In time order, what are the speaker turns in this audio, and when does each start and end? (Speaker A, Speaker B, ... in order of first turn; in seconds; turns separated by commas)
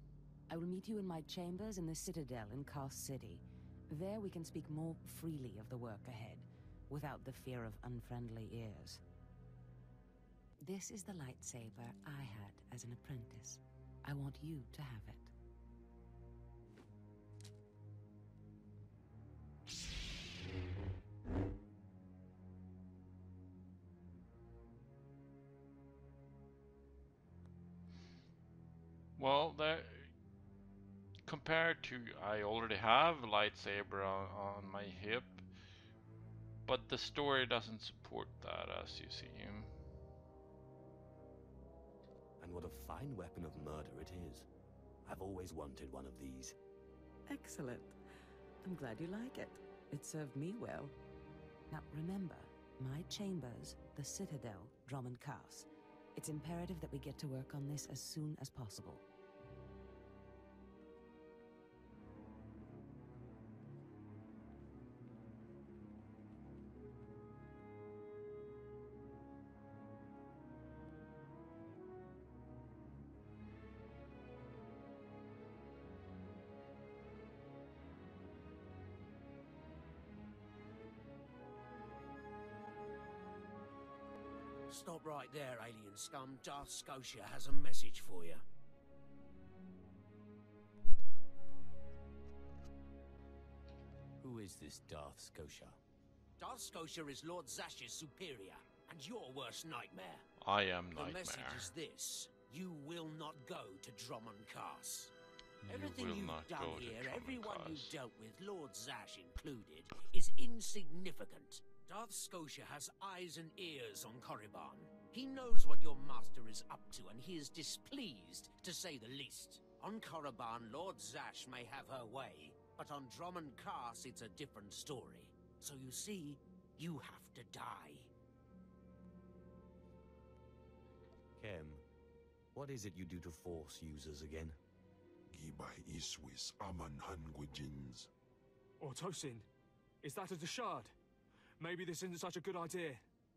Speaker A: 0.5-9.0, Speaker A: 10.6-15.3, Speaker B: 29.2-30.1, Speaker B: 31.2-35.4, Speaker B: 36.6-39.7, Speaker C: 42.4-44.5, Speaker C: 45.0-46.5, Speaker A: 47.3-48.0, Speaker A: 48.6-50.9, Speaker A: 51.7-59.0, Speaker D: 84.7-88.4, Speaker C: 94.2-95.8, Speaker D: 96.4-100.2, Speaker B: 100.4-101.7, Speaker D: 100.9-105.1, Speaker B: 105.6-107.9, Speaker D: 105.7-128.1, Speaker C: 131.4-131.8, Speaker C: 132.5-134.6, Speaker E: 135.3-138.1, Speaker F: 138.8-139.5, Speaker F: 140.0-140.9, Speaker F: 141.6-143.0